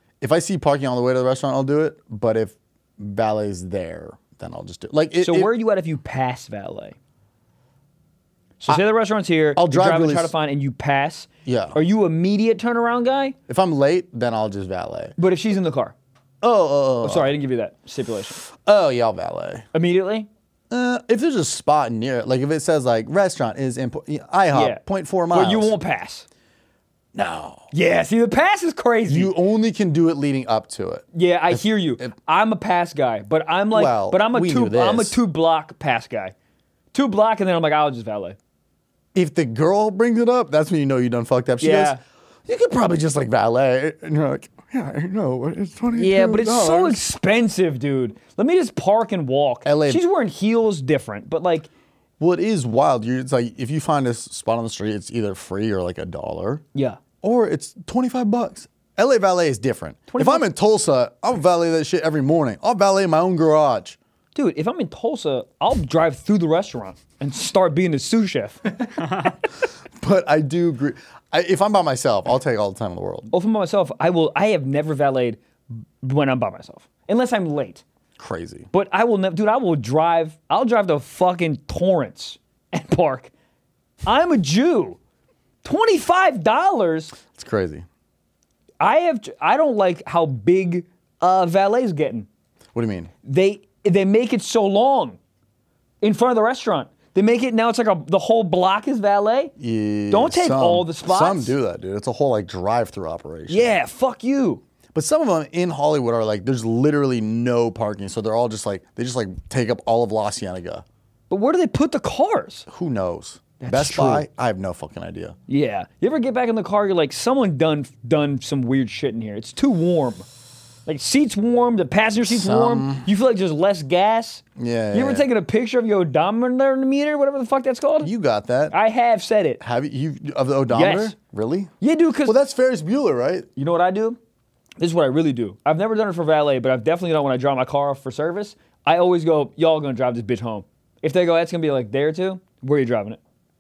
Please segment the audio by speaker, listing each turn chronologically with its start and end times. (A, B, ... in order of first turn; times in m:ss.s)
0:00.2-0:05.5 A
0:05.2-0:07.0 B
0:08.6-0:13.4 B
0:09.6-0:10.3 A
0:11.4-0:11.8 A
0:13.5-0:15.2 A
0:15.2-0:16.0 B
0:16.4-0:17.4 A
0:17.0-0:18.4 B
0:18.4-0:19.7 A
0:19.7-0:20.3 B
0:20.7-0:25.7 A
0:24.5-0:26.3 B
0:27.2-0:27.7 A
0:27.7-0:29.3 B
0:29.1-0:32.1 A
0:31.1-0:36.4 B
0:33.7-0:35.2 A
0:36.9-0:38.4 B
0:39.2-0:42.0 A
0:41.6-0:42.0 B
0:42.5-0:47.0 A
0:46.0-0:51.7 B
0:49.6-0:50.0 A
0:52.2-0:56.6 A
0:57.2-1:04.0 A
1:00.1-1:00.5 B
1:04.4-1:08.6 B
1:10.0-1:13.3 A
1:13.3-1:15.4 B
1:16.0-1:17.8 B
1:18.2-1:18.7 A
1:18.7-1:23.3 B
1:24.0-1:25.0 B
1:25.6-1:27.2 B
1:27.3-1:27.9 A
1:28.8-1:32.3 B
1:32.7-1:33.1 A
1:33.2-1:35.2 B
1:36.0-1:39.5 B
1:39.6-1:43.8 A
1:40.1-1:41.6 B
1:43.5-1:44.6 B
1:45.0-1:50.8 A
1:51.3-1:52.7 B
1:52.7-1:55.4 A
1:53.6-1:54.3 B
1:55.5-2:00.3 B
2:00.9-2:08.1 B
2:02.3-2:03.1 A
2:04.6-2:05.3 A
2:08.0-2:08.8 A
2:08.7-2:09.6 B
2:09.6-2:11.7 A
2:10.7-2:11.1 B
2:11.8-2:12.4 B
2:12.2-2:13.5 A
2:13.6-2:14.2 B
2:14.8-2:23.2 B